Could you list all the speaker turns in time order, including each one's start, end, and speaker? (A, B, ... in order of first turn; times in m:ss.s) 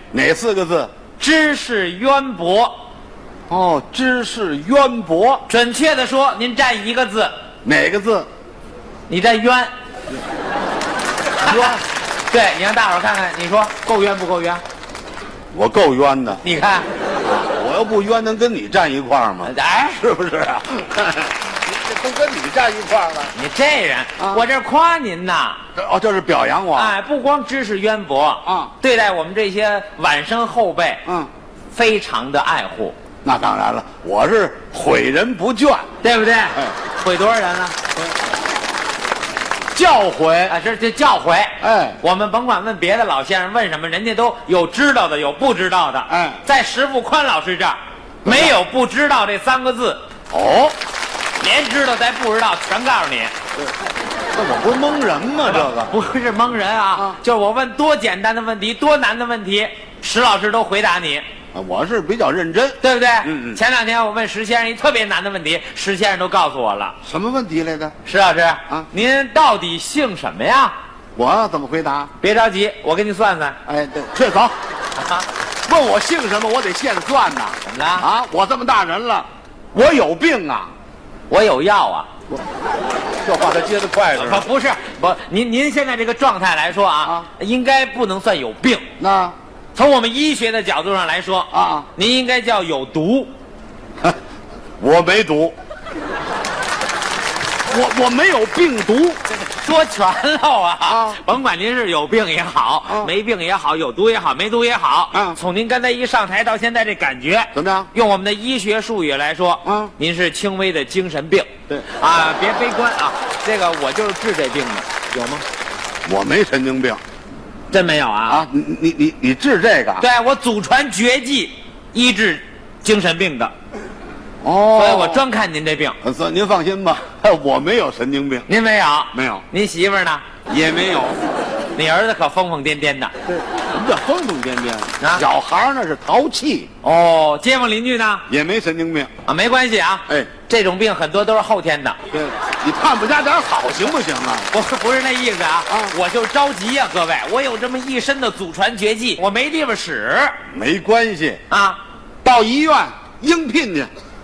0:00.1-0:00.9 A
0:01.2-0:02.8 B
0:03.5-0:05.4 A
0:05.5-0:07.3 B
0:07.6-0:08.3 A
0:09.1-0:09.7 B
0:11.4-0:14.6 B
0:15.5-0:16.4 A
0:16.4-0:16.9 B
0:17.2-0:23.3 A
0:19.4-0:20.0 B
0:23.3-0:25.6 B
0:24.2-0:24.4 A
0:25.8-0:27.0 A
0:26.7-0:31.0 B
0:28.4-0:28.7 A
0:31.7-0:33.0 B
0:33.2-0:35.9 A
0:36.0-0:37.8 B
0:39.8-0:40.6 A
0:40.5-0:50.0 B
0:41.6-0:42.0 A
0:46.1-0:46.4 A
0:48.2-0:48.6 A
0:50.3-0:50.8 A
0:51.4-0:53.3 B
0:54.3-0:55.9 A
0:55.4-1:01.2 B
1:01.5-1:03.6 A
1:02.8-1:07.0 B
1:07.0-1:08.0 A
1:08.0-1:10.7 B
1:11.2-1:12.1 A
1:12.2-1:13.6 B
1:13.7-1:14.6 A
1:15.0-1:15.3 B
1:15.6-1:20.7 A
1:17.6-1:18.1 B
1:21.3-1:22.1 B
1:23.2-1:24.5 A
1:24.1-1:28.8 B
1:29.0-1:29.4 A
1:29.8-1:33.3 B
1:31.5-1:31.9 A
1:34.8-1:35.6 A
1:37.7-1:39.2 A
1:39.3-1:55.4 B
1:40.9-1:41.2 A
1:42.9-1:43.1 A
1:45.1-1:45.4 A
1:47.5-1:47.9 A
1:49.6-1:49.9 A
1:56.0-1:57.0 A
1:57.7-1:58.4 B
1:58.3-2:00.0 A
2:00.0-2:03.5 B
2:04.4-2:05.2 A
2:04.8-2:06.0 B
2:06.0-2:08.5 A
2:08.5-2:10.2 B
2:09.1-2:09.4 A
2:10.5-2:11.2 A
2:11.8-2:13.1 B
2:13.3-2:16.7 A
2:15.0-2:15.3 B
2:16.8-2:18.2 B
2:18.3-2:19.1 A
2:19.3-2:22.0 B
2:22.1-2:24.5 A
2:24.5-2:30.4 B
2:25.7-2:25.9 A
2:30.5-2:31.4 A
2:31.5-2:31.8 B
2:32.2-2:33.9 A